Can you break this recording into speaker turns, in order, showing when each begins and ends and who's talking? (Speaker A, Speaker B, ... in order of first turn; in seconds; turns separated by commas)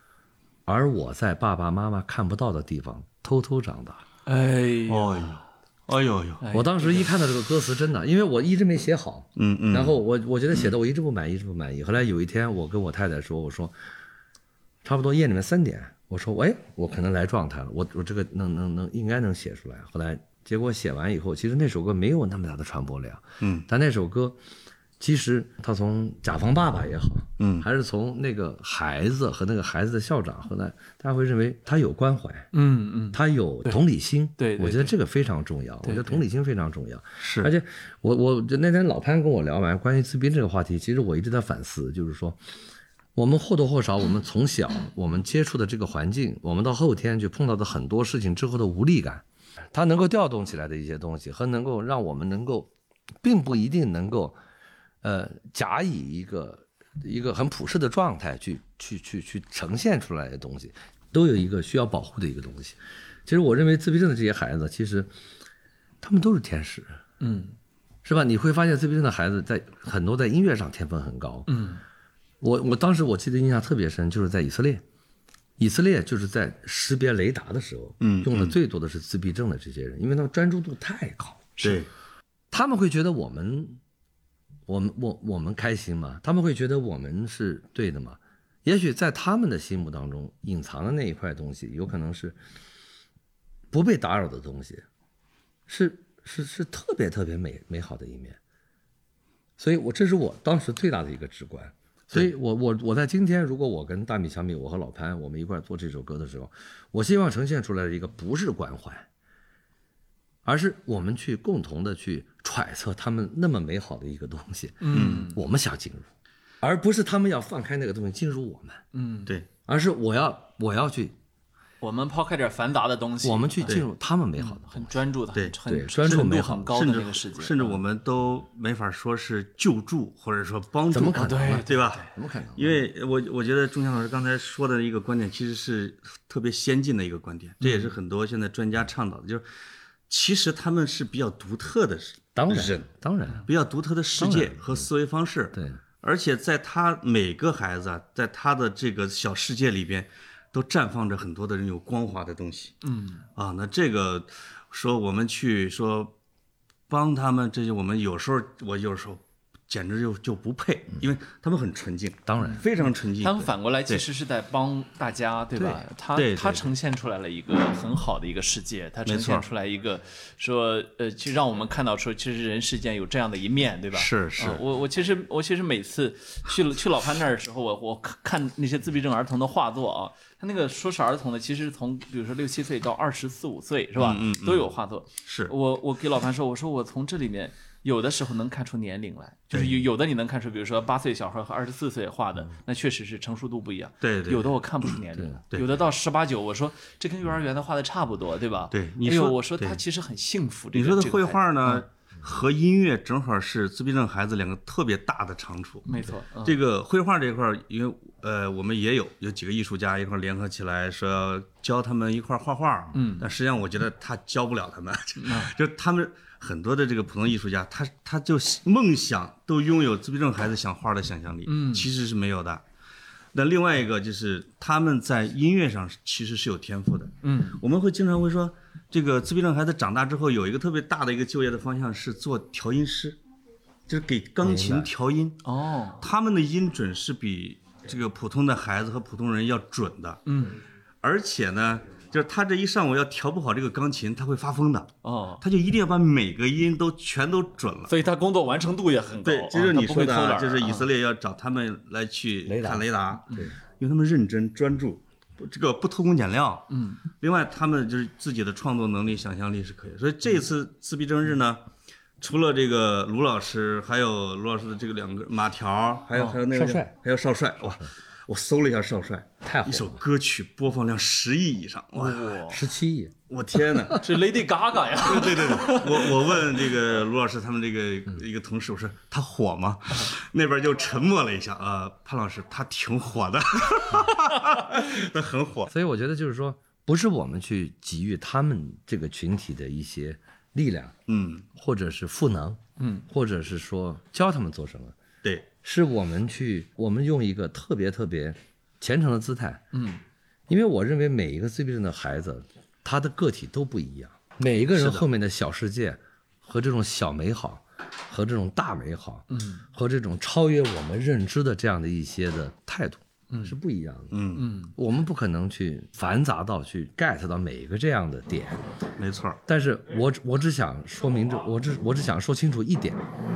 Speaker A: 0.7-4.0, Speaker B: 4.2-5.4, Speaker C: 4.9-6.4, Speaker B: 6.4-7.1, Speaker A: 6.5-13.7, Speaker C: 9.3-10.0, Speaker A: 14.8-24.4, Speaker C: 23.4-23.7, Speaker A: 25.0-32.5, Speaker C: 27.4-27.7, Speaker B: 32.5-33.8, Speaker A: 33.1-42.4, Speaker B: 34.4-34.9, Speaker B: 35.8-36.2, Speaker C: 37.2-37.5, Speaker A: 43.1-52.7, Speaker A: 53.2-54.4, Speaker A: 55.0-65.1, Speaker A: 66.0-67.0, Speaker B: 67.2-67.5, Speaker A: 68.0-71.6, Speaker B: 71.5-71.8, Speaker A: 72.4-74.8, Speaker A: 75.6-81.7, Speaker C: 78.0-78.5, Speaker C: 81.6-81.9, Speaker A: 82.5-83.8, Speaker A: 84.7-92.4, Speaker A: 93.7-94.8, Speaker A: 95.7-98.4, Speaker A: 99.6-109.1, Speaker A: 110.4-116.1, Speaker B: 114.8-115.4, Speaker C: 114.9-115.3, Speaker A: 116.6-118.8, Speaker B: 118.9-119.3, Speaker A: 119.7-121.2, Speaker B: 121.8-123.8, Speaker A: 123.2-125.0, Speaker B: 124.4-127.8, Speaker A: 125.6-126.8, Speaker C: 126.7-139.4, Speaker A: 130.9-132.8, Speaker B: 131.1-132.1, Speaker B: 137.6-137.9, Speaker C: 140.1-142.9, Speaker A: 142.3-143.5, Speaker C: 143.4-152.8, Speaker A: 144.2-144.9, Speaker A: 145.5-145.8, Speaker B: 152.8-153.2, Speaker C: 153.3-156.1, Speaker C: 156.9-164.0, Speaker A: 162.2-162.6, Speaker B: 163.2-201.8, Speaker A: 165.6-165.8, Speaker C: 166.1-166.7, Speaker C: 169.1-169.4, Speaker C: 173.9-174.6, Speaker C: 184.0-184.7, Speaker C: 185.2-185.5, Speaker C: 189.5-189.8, Speaker C: 194.0-194.9, Speaker C: 198.7-199.8, Speaker C: 200.7-205.9, Speaker B: 205.8-206.6, Speaker C: 206.4-222.6, Speaker B: 212.9-213.3, Speaker B: 215.2-215.5, Speaker B: 221.5-221.9, Speaker C: 223.3-233.2, Speaker B: 227.2-227.6, Speaker C: 233.9-235.4, Speaker A: 234.4-234.9, Speaker B: 235.4-236.0, Speaker C: 236.0-240.2, Speaker B: 240.2-240.6, Speaker C: 241.0-247.9, Speaker B: 245.0-245.4, Speaker B: 247.9-250.9, Speaker C: 249.2-256.7, Speaker A: 252.4-253.5, Speaker B: 256.7-257.0, Speaker C: 257.2-261.6, Speaker C: 262.2-272.4, Speaker A: 266.5-266.9, Speaker A: 269.4-270.0, Speaker B: 271.9-272.6, Speaker A: 272.5-273.1, Speaker C: 273.3-274.0, Speaker B: 273.9-276.4, Speaker C: 275.0-285.7, Speaker A: 285.7-290.9, Speaker C: 291.1-291.4, Speaker A: 291.5-294.9, Speaker B: 292.8-293.0, Speaker A: 295.6-299.6, Speaker B: 299.7-300.0, Speaker A: 300.5-314.2, Speaker C: 304.8-305.0, Speaker B: 309.3-309.6, Speaker C: 314.1-314.5, Speaker B: 314.4-314.7, Speaker A: 314.7-318.6, Speaker C: 319.0-319.4, Speaker A: 319.4-323.1